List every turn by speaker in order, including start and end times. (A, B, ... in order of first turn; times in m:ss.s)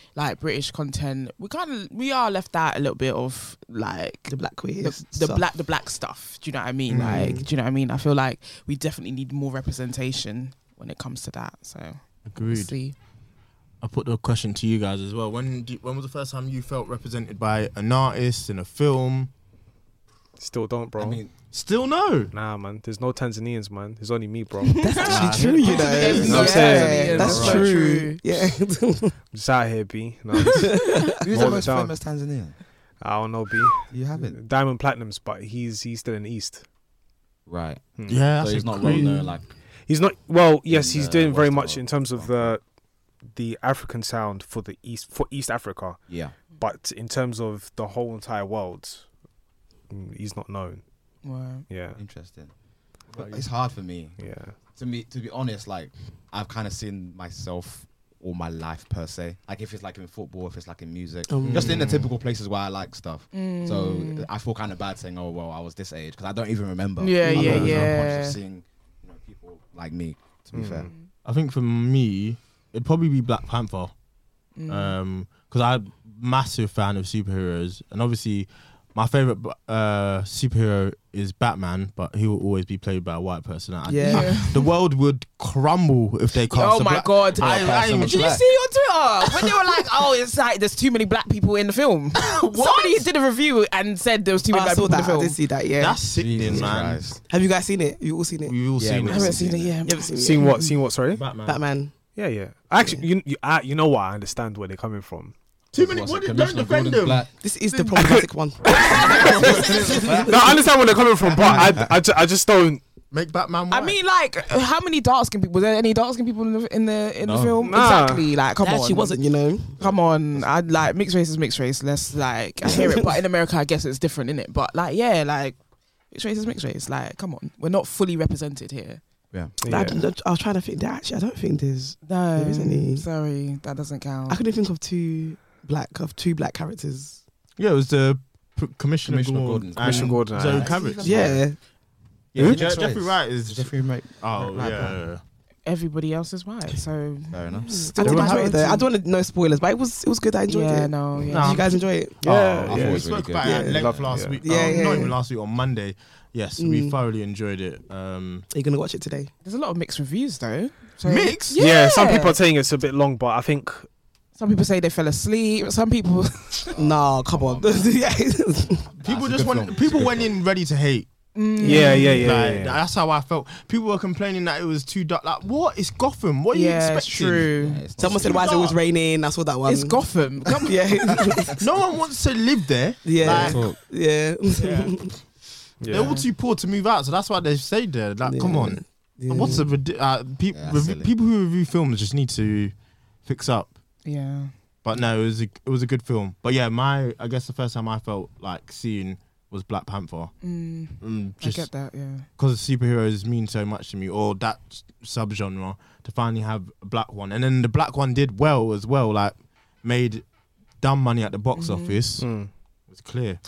0:00.2-0:13.0 A
0:04.3-0:05.5 B
0:06.9-0:07.4 C
0:07.0-0:07.4 B
0:12.3-0:12.7 C
0:13.8-0:19.3 C
0:20.4-0:21.2 D
0:21.0-0:21.3 E
0:21.5-0:22.3 C
0:22.3-0:24.8 D
0:24.6-0:28.2 A
0:24.8-0:29.2 B
0:25.0-0:26.6 C
0:25.2-0:27.8 E
0:25.7-0:27.8 D
0:29.3-0:31.9 D
0:30.5-0:31.2 B
0:31.2-0:32.6 E
0:33.0-0:36.6 D
0:33.9-0:34.4 E
0:37.5-0:39.5 E
0:38.0-0:38.2 D
0:38.1-0:39.2 C
0:38.8-0:39.3 B
0:39.9-0:42.6 D
0:40.7-0:42.6 E
0:43.3-0:49.1 D
0:46.1-0:46.4 E
0:49.9-0:50.8 D
0:51.2-0:51.6 A
0:51.7-0:52.0 D
0:52.0-0:52.5 E
0:53.1-1:10.9 E
0:54.2-0:54.6 D
1:01.3-1:01.7 B
1:01.5-1:02.1 C
1:03.3-1:04.3 A
1:07.0-1:08.4 A
1:07.2-1:07.8 B
1:07.4-1:07.8 C
1:10.5-1:10.9 D
1:11.2-1:13.9 C
1:14.6-1:15.0 A
1:14.7-1:28.4 C
1:23.9-1:24.5 B
1:24.0-1:24.7 A
1:26.5-1:35.4 A
1:27.3-1:28.5 E
1:32.2-1:33.1 C
1:34.5-1:36.7 B
1:35.8-1:37.1 C
1:36.1-1:37.2 E
1:37.2-1:38.7 B
1:38.4-1:39.6 C
1:38.8-1:39.8 E
1:39.1-1:40.4 A
1:39.9-1:40.8 B
1:40.1-1:41.2 D
1:41.1-1:41.6 C
1:41.4-1:41.9 B
1:42.2-1:45.3 D
1:45.7-1:47.3 C
1:45.7-1:47.3 E
1:47.4-1:50.2 B
1:48.0-1:48.2 D
1:48.7-1:50.6 E
1:48.9-1:49.5 A
1:50.2-1:52.8 D
1:51.2-1:51.9 E
1:51.4-1:51.8 C
1:53.1-1:54.0 C
1:53.7-1:59.1 A
1:57.2-1:57.7 E
1:57.6-1:58.3 D
1:58.6-1:59.8 B
1:59.8-2:00.5 E
1:59.8-2:05.6 A
2:02.6-2:03.0 B
2:06.1-2:09.0 A
2:09.6-2:10.0 D
2:09.7-2:13.1 B
2:12.0-2:14.4 A
2:14.3-2:17.2 B
2:17.6-2:21.4 C
2:19.0-2:21.5 E
2:19.8-2:20.8 D
2:21.0-2:21.6 B
2:22.3-2:25.2 C
2:22.4-2:25.0 E
2:22.4-2:22.7 D
2:25.6-2:28.9 A
2:27.3-2:27.9 E
2:27.7-2:32.2 B
2:28.0-2:28.6 C
2:30.5-2:31.6 A
2:31.3-2:31.8 C
2:32.2-2:33.2 D
2:32.3-2:38.5 C
2:32.3-2:34.3 E
2:33.4-2:33.8 B
2:34.0-2:34.4 D
2:34.4-2:35.2 B
2:34.5-2:35.1 A
2:36.6-2:37.0 B
2:38.5-2:39.3 B
2:39.4-2:42.4 A
2:41.0-2:41.6 C
2:41.5-2:43.9 D
2:44.4-2:46.7 A
2:46.7-2:48.0 E
2:46.8-2:48.9 B
2:49.0-2:50.3 E
2:49.0-2:51.1 C
2:51.4-2:52.2 A
2:51.6-2:52.2 B
2:51.6-2:52.8 D
2:52.0-2:58.7 C
2:56.5-2:57.8 A
2:57.5-2:58.8 E
2:58.0-3:00.1 B
2:59.6-3:00.8 A
3:00.6-3:01.5 B
3:01.6-3:03.6 C
3:03.0-3:05.1 B
3:03.2-3:03.8 E
3:04.6-3:05.0 A
3:05.8-3:06.2 D
3:05.9-3:13.8 C
3:06.0-3:06.2 A
3:08.2-3:09.7 B
3:10.5-3:11.1 E
3:14.0-3:14.5 A
3:14.8-3:20.3 C
3:20.4-3:22.3 A
3:21.0-3:21.7 C
3:22.4-3:30.2 C
3:30.8-3:32.3 C
3:31.6-3:32.0 A
3:32.2-3:32.5 D
3:32.9-3:33.4 C